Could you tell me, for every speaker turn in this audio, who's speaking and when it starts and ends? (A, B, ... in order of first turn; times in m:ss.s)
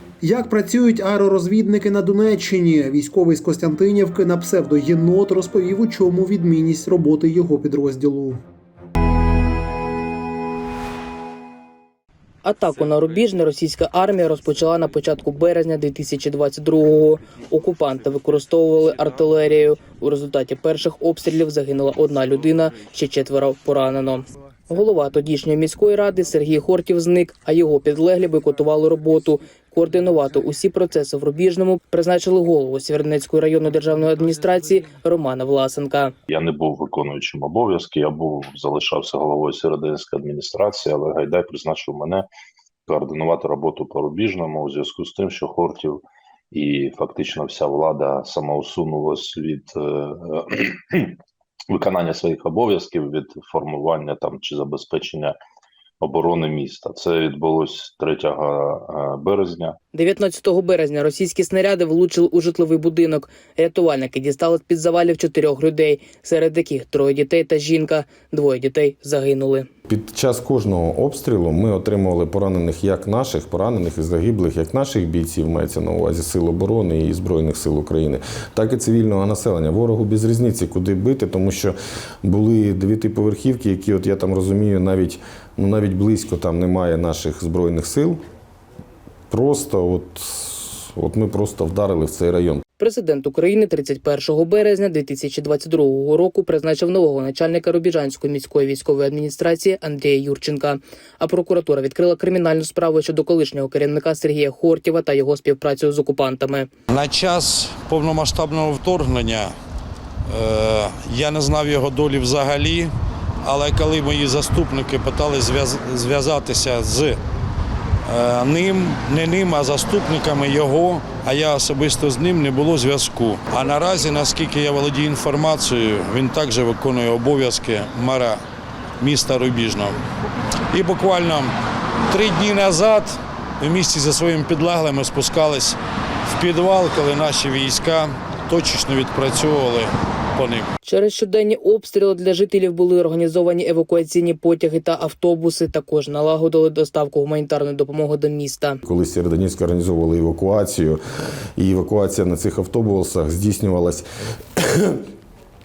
0:00.2-0:08.4 A
0:12.4-0:36.1 B
0:36.3-0:42.3 C
0:42.9-0:46.0 C
0:46.5-0:51.2 C
0:51.7-0:55.3 C
0:56.0-0:59.8 C
0:59.9-1:09.7 B
1:09.9-1:28.2 D
1:29.3-1:32.6 D
1:32.8-1:46.7 B
1:46.9-1:49.6 E
1:50.3-1:57.2 E
1:58.1-2:08.4 E
2:09.0-2:10.0 E
2:10.7-2:11.5 E
2:12.1-2:20.7 E
2:20.8-2:28.8 B
2:28.9-2:31.0 D
2:31.6-2:34.0 D
2:34.6-2:35.0 D